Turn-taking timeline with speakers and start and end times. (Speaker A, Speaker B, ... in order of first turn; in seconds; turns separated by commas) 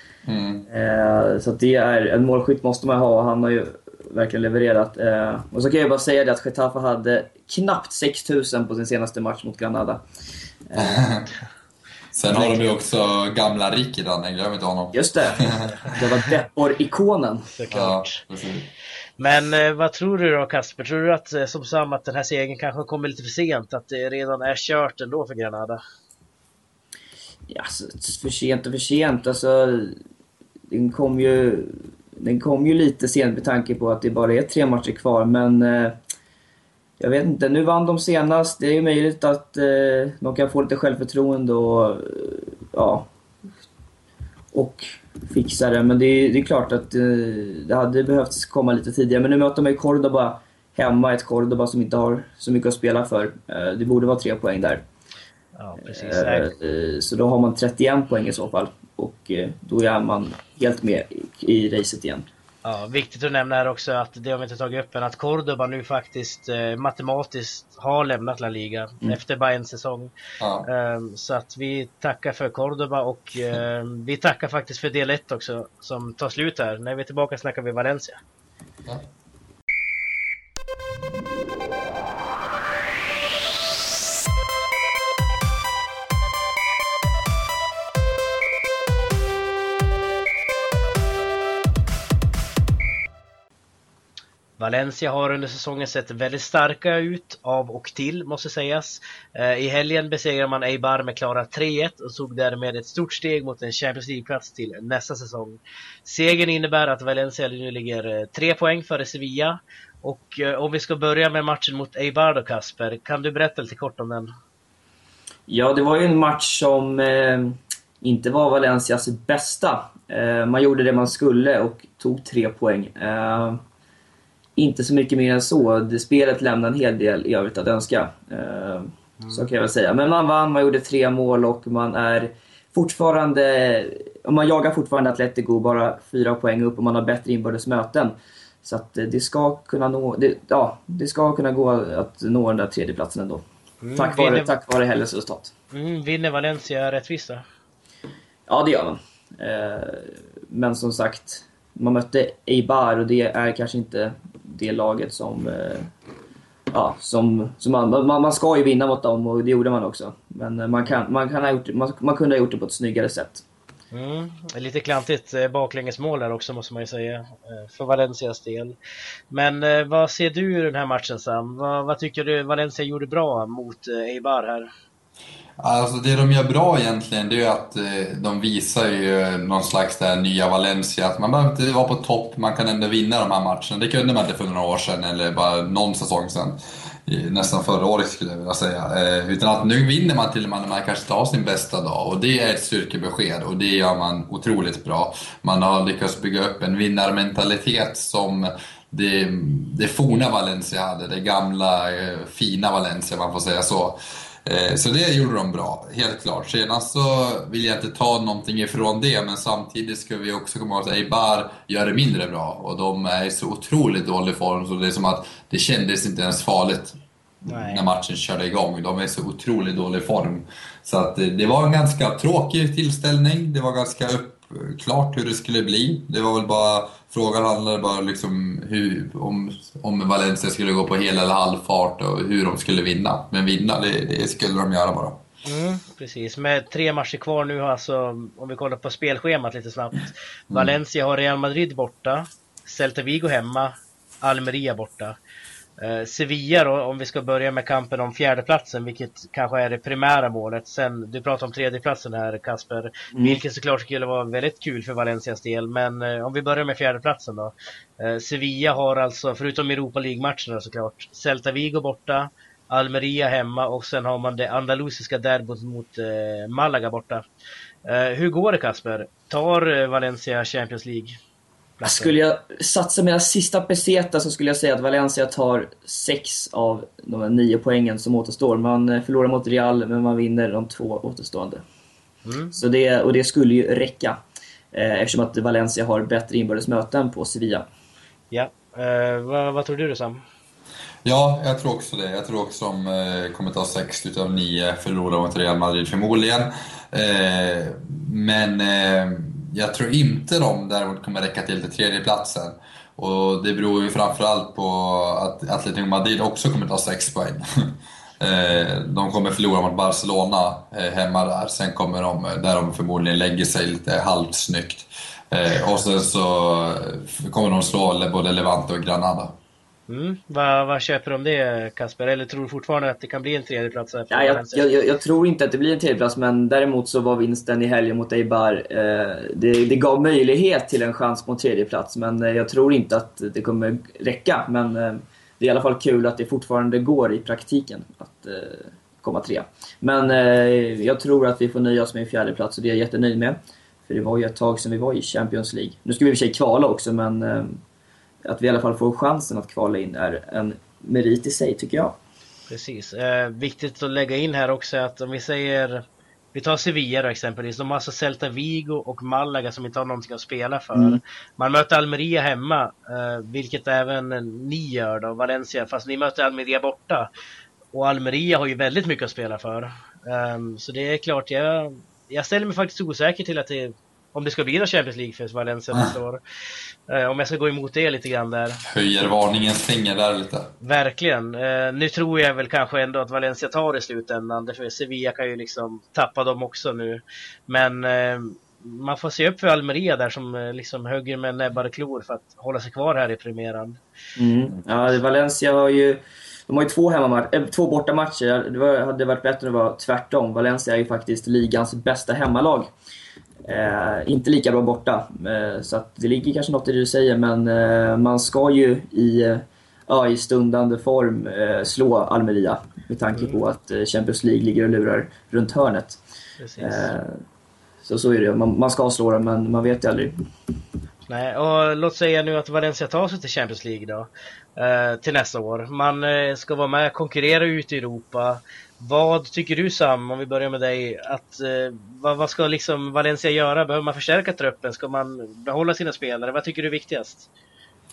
Speaker A: 0.2-0.7, Speaker B: 0.7-10.0, Speaker B: 10.7-11.1, Speaker A: 10.7-11.3, Speaker A: 12.2-15.6, Speaker C: 12.3-12.7, Speaker B: 14.9-17.5, Speaker C: 15.6-16.0, Speaker C: 17.5-18.2, Speaker A: 17.7-18.7, Speaker C: 19.2-25.8, Speaker B: 27.5-30.0, Speaker B: 30.7-36.0, Speaker B: 37.0-43.0, Speaker B: 44.5-54.8, Speaker C: 55.6-56.5, Speaker B: 55.8-62.2, Speaker C: 62.6-70.1, Speaker A: 70.4-70.7, Speaker C: 70.7-78.2, Speaker C: 94.6-114.3, Speaker B: 115.5-123.6, Speaker B: 124.6-143.4, Speaker C: 129.2-129.5, Speaker C: 143.8-144.5, Speaker B: 144.0-145.5, Speaker C: 145.7-147.4, Speaker B: 148.5-155.9, Speaker B: 156.7-163.4, Speaker C: 163.9-168.8, Speaker C: 169.3-174.7, Speaker A: 175.6-217.0, Speaker C: 217.5-217.8, Speaker A: 217.5-235.2, Speaker C: 235.4-245.2, Speaker C: 245.8-267.2, Speaker B: 253.1-253.4, Speaker C: 267.9-271.2, Speaker C: 271.8-272.1, Speaker B: 271.8-281.6, Speaker C: 282.2-282.6, Speaker B: 282.5-284.2, Speaker B: 284.7-287.7, Speaker C: 288.3-290.2, Speaker A: 291.1-319.3, Speaker C: 319.9-324.7, Speaker B: 324.1-347.6, Speaker B: 348.2-352.0, Speaker C: 352.5-367.1, Speaker B: 360.7-361.0, Speaker C: 367.7-376.2, Speaker C: 376.9-378.6, Speaker A: 378.7-380.5, Speaker C: 380.6-393.8, Speaker B: 394.2-402.7, Speaker B: 403.4-416.0, Speaker C: 413.1-413.4, Speaker C: 416.4-416.9, Speaker B: 416.6-417.2, Speaker B: 417.9-420.1, Speaker C: 421.1-437.3